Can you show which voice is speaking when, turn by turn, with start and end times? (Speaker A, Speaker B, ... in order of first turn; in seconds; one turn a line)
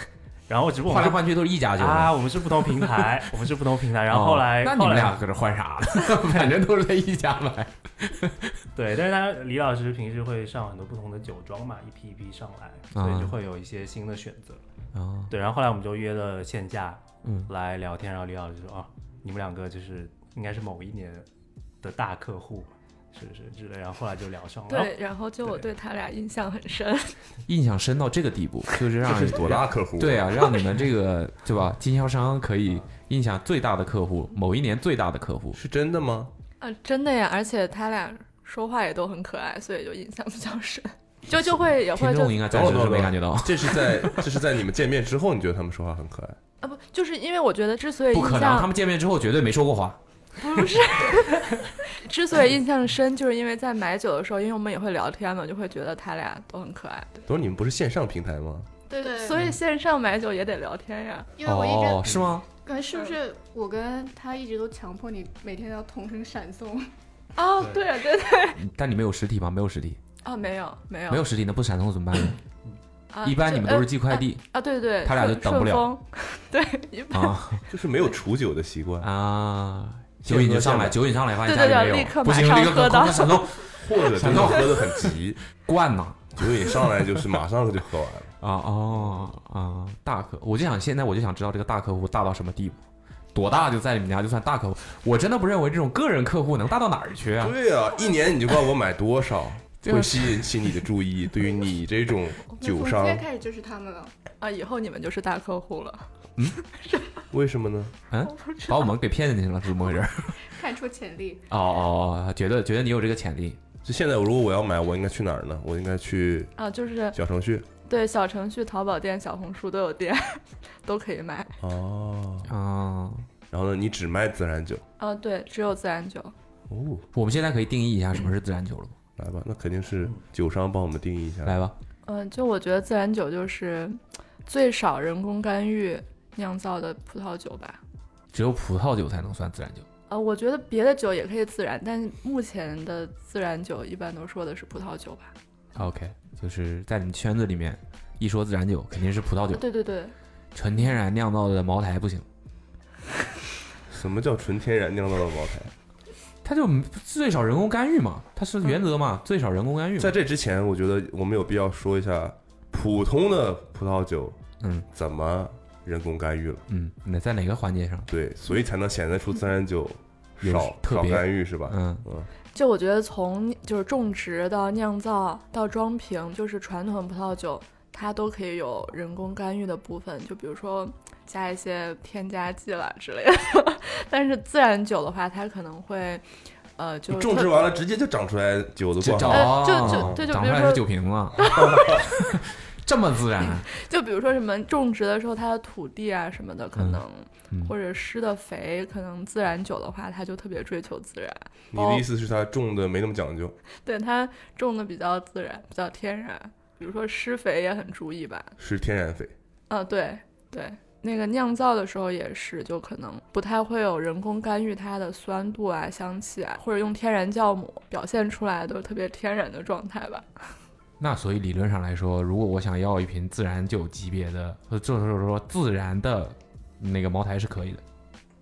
Speaker A: 0.5-5.2
Speaker B: 0.8-3.2
Speaker B: 4.1-8.7
Speaker A: 8.7-14.6
Speaker B: 12.9-13.3
Speaker B: 14.9-15.3
Speaker A: 15.3-21.3
Speaker B: 17.2-17.5
Speaker A: 21.8-25.7
Speaker C: 24.7-27.2
Speaker B: 27.4-35.6
Speaker D: 29.0-30.4
Speaker D: 35.5-36.3
Speaker C: 36.6-42.5
Speaker B: 41.9-44.2
Speaker D: 42.5-46.4
Speaker C: 46.6-48.7
Speaker B: 48.1-50.0
Speaker C: 50.4-57.2
Speaker D: 57.3-58.7
Speaker C: 58.9-61.3
Speaker E: 58.9-59.5
Speaker E: 61.4-66.9
Speaker B: 61.4-62.4
Speaker C: 67.3-68.6
Speaker B: 68.5-70.0
Speaker C: 70.2-71.2
Speaker B: 71.1-72.4
Speaker C: 73.1-77.6
Speaker B: 73.2-74.4
Speaker B: 75.0-75.9
Speaker B: 77.1-77.6
Speaker D: 77.7-79.1
Speaker B: 79.0-86.9
Speaker D: 80.2-81.0
Speaker C: 81.4-83.8
Speaker D: 83.8-85.4
Speaker D: 86.3-88.3
Speaker B: 88.4-92.8
Speaker B: 93.3-97.5
Speaker D: 97.4-103.2
Speaker B: 99.8-100.8
Speaker E: 102.6-104.1
Speaker C: 104.4-107.2
Speaker D: 107.3-107.9
Speaker B: 108.1-110.5
Speaker C: 108.3-108.8
Speaker E: 110.4-111.5
Speaker B: 111.5-113.6
Speaker D: 113.8-116.5
Speaker C: 116.6-117.2
Speaker D: 117.1-117.7
Speaker C: 117.8-121.6
Speaker D: 121.6-122.5
Speaker B: 122.5-123.3
Speaker D: 123.5-124.8
Speaker C: 125.0-126.3
Speaker D: 126.7-127.0
Speaker B: 127.1-128.9
Speaker D: 129.2-131.6
Speaker B: 131.4-131.7
Speaker C: 132.0-137.8
Speaker B: 138.3-139.8
Speaker C: 140.1-145.3
Speaker B: 145.7-149.7
Speaker C: 149.5-150.1
Speaker B: 150.5-152.2
Speaker D: 153.9-155.7
Speaker B: 156.4-160.2
Speaker D: 160.0-164.4
Speaker B: 164.6-164.9
Speaker D: 164.9-166.6
Speaker B: 166.7-168.1
Speaker D: 168.1-172.3
Speaker B: 170.4-172.0
Speaker C: 172.5-187.7
Speaker D: 187.1-190.2
Speaker B: 189.0-193.7
Speaker C: 189.3-192.1
Speaker D: 191.6-191.9
Speaker C: 193.4-202.1
Speaker B: 196.8-197.7
Speaker D: 201.7-203.5
Speaker C: 203.8-208.5
Speaker D: 208.6-209.3
Speaker C: 209.7-220.6
Speaker B: 221.0-227.8